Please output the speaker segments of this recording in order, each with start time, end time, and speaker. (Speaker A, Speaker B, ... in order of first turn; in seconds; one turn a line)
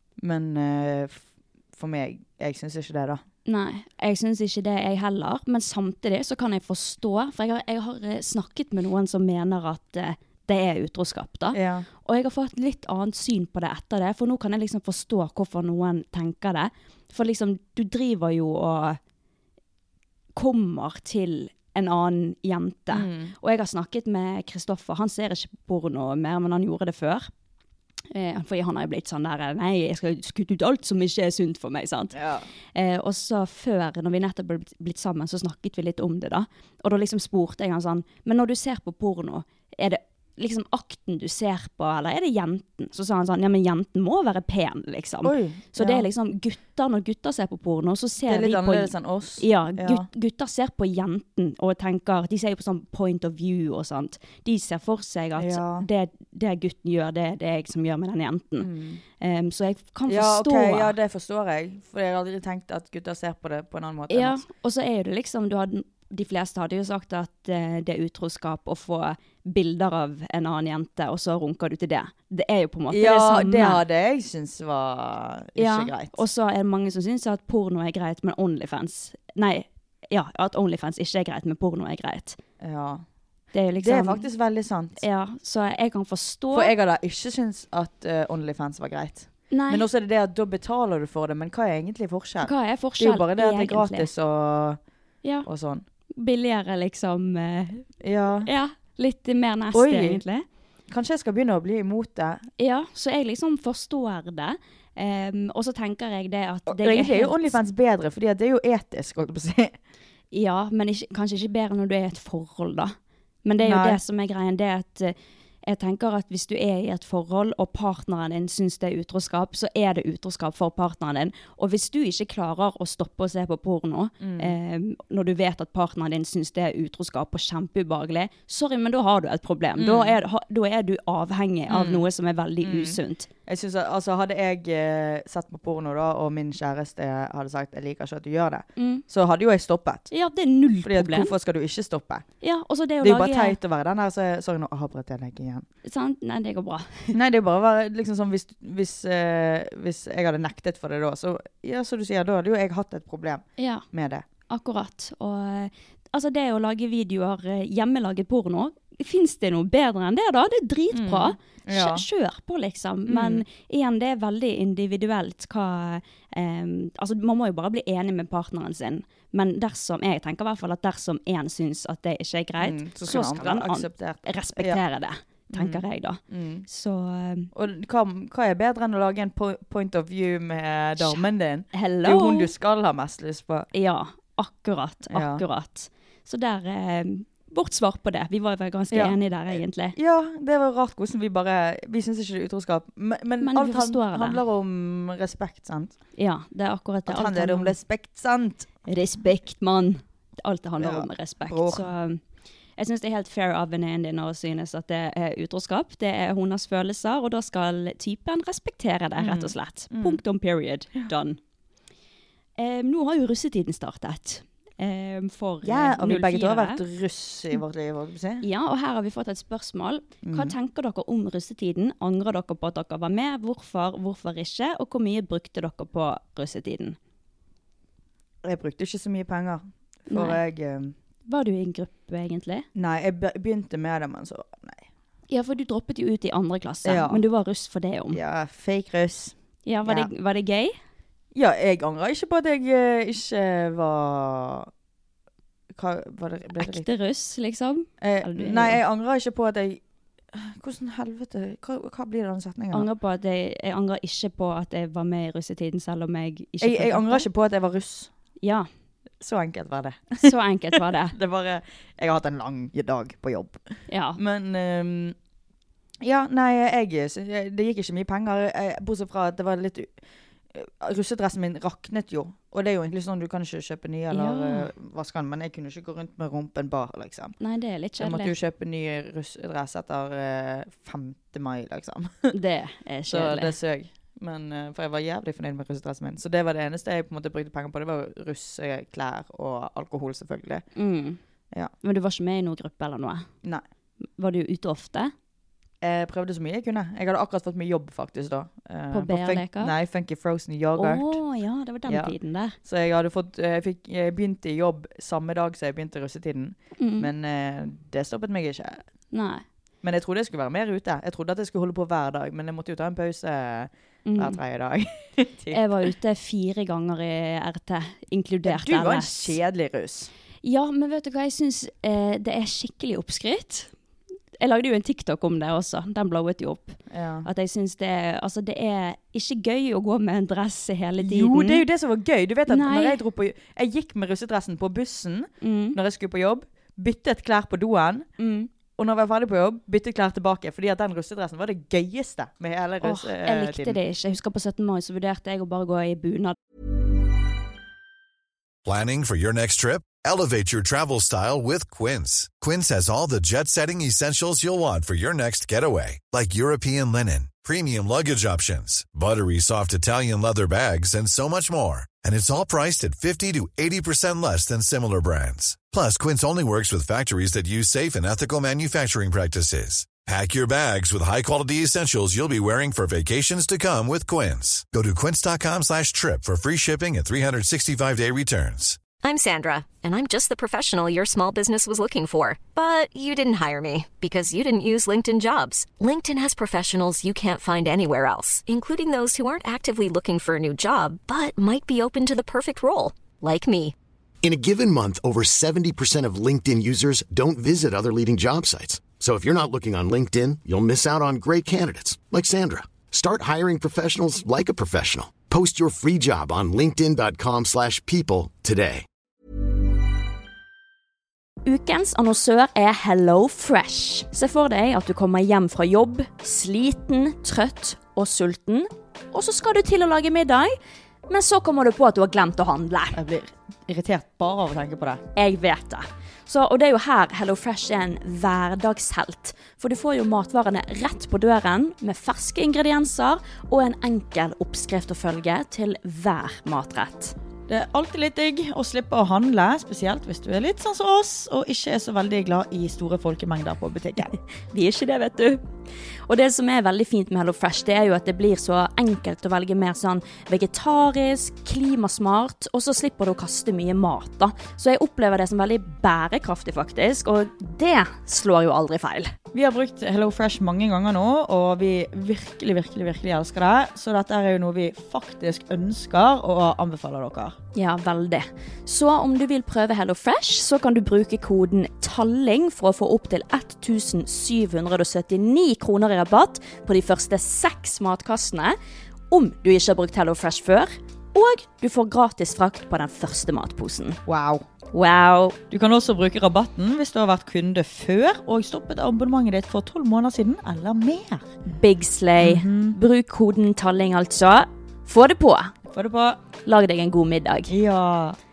Speaker A: 0.2-3.2
Speaker B: 3.5-19.0
Speaker A: 11.5-11.9
Speaker B: 20.3-27.3
Speaker A: 22.9-23.3
Speaker B: 28.1-32.2
Speaker A: 32.1-32.5
Speaker B: 32.7-58.7
Speaker A: 45.2-46.1
Speaker A: 48.2-50.1
Speaker A: 55.4-55.9
Speaker A: 58.6-59.0
Speaker B: 59.2-60.9
Speaker A: 60.1-64.4
Speaker B: 64.1-73.8
Speaker A: 72.9-76.2
Speaker B: 75.6-82.4
Speaker A: 82.6-83.0
Speaker B: 83.5-84.3
Speaker A: 83.8-85.0
Speaker B: 85.0-86.7
Speaker A: 86.5-94.8
Speaker B: 89.5-89.8
Speaker B: 92.4-94.1
Speaker A: 95.4-95.8
Speaker B: 96.2-97.9
Speaker A: 98.0-98.5
Speaker B: 98.4-100.4
Speaker A: 99.7-100.2
Speaker A: 100.9-102.4
Speaker B: 102.6-107.6
Speaker A: 106.7-109.7
Speaker B: 110.3-133.3
Speaker A: 113.6-114.0
Speaker A: 124.2-124.5
Speaker A: 129.8-130.2
Speaker A: 131.7-132.1
Speaker A: 132.6-140.1
Speaker B: 138.8-139.0
Speaker B: 140.1-141.3
Speaker A: 140.8-142.2
Speaker B: 142.4-143.6
Speaker A: 143.0-145.7
Speaker B: 145.8-147.2
Speaker A: 147.1-154.2
Speaker B: 153.6-153.8
Speaker B: 154.5-177.5
Speaker A: 160.9-162.0
Speaker A: 163.1-163.4
Speaker A: 172.6-174.8
Speaker A: 175.5-176.6
Speaker A: 177.5-183.7
Speaker B: 181.0-182.5
Speaker B: 183.7-190.0
Speaker A: 185.1-185.4
Speaker A: 188.9-195.9
Speaker B: 193.4-194.4
Speaker B: 196.2-197.7
Speaker A: 197.1-198.7
Speaker B: 198.9-202.2
Speaker A: 200.8-201.9
Speaker B: 202.8-211.4
Speaker A: 209.2-210.2
Speaker B: 212.6-216.8
Speaker A: 215.6-218.4
Speaker B: 218.4-227.0
Speaker A: 220.2-220.5
Speaker A: 228.4-230.9
Speaker B: 230.1-230.4
Speaker B: 231.3-232.7
Speaker A: 232.7-234.8
Speaker B: 235.3-238.2
Speaker A: 236.8-237.2
Speaker A: 238.1-240.1
Speaker B: 239.7-240.8
Speaker A: 241.3-244.7
Speaker A: 245.7-246.9
Speaker B: 246.6-248.8
Speaker A: 248.0-249.8
Speaker A: 250.3-252.9
Speaker B: 252.7-257.3
Speaker A: 256.6-258.1
Speaker B: 258.4-258.7
Speaker A: 259.2-265.1
Speaker B: 260.2-261.1
Speaker B: 263.9-264.2
Speaker A: 266.0-269.9
Speaker A: 270.5-277.3
Speaker B: 274.1-274.7
Speaker B: 277.4-278.3
Speaker A: 278.0-282.3
Speaker B: 282.3-283.6
Speaker A: 283.1-290.6
Speaker B: 290.8-291.2
Speaker B: 291.8-293.3
Speaker B: 294.2-295.1
Speaker A: 295.8-301.2
Speaker B: 298.9-299.7
Speaker B: 300.8-302.6
Speaker A: 301.9-308.8
Speaker B: 306.8-307.1
Speaker B: 309.1-309.4
Speaker A: 309.8-315.9
Speaker B: 314.1-314.4
Speaker B: 315.5-319.4
Speaker A: 318.4-320.1
Speaker B: 320.4-323.7
Speaker B: 324.4-331.6
Speaker A: 326.9-327.3
Speaker A: 331.0-338.1
Speaker B: 332.5-333.0
Speaker B: 335.4-335.8
Speaker B: 338.2-338.5
Speaker A: 338.8-343.8
Speaker B: 342.8-346.4
Speaker C: 348.6-378.9
Speaker D: 379.0-393.7
Speaker E: 394.2-408.9
Speaker B: 411.4-420.5
Speaker B: 421.1-423.0
Speaker A: 422.9-425.0
Speaker B: 425.1-437.1
Speaker A: 437.5-444.1
Speaker B: 444.5-445.4
Speaker B: 446.1-459.1
Speaker A: 459.3-467.4
Speaker B: 467.5-478.6
Speaker B: 479.1-484.0
Speaker A: 484.1-484.4
Speaker B: 484.7-485.4
Speaker A: 485.5-491.3
Speaker B: 491.5-495.5
Speaker A: 492.2-492.8
Speaker A: 495.7-496.2
Speaker B: 496.4-497.5
Speaker A: 497.5-498.2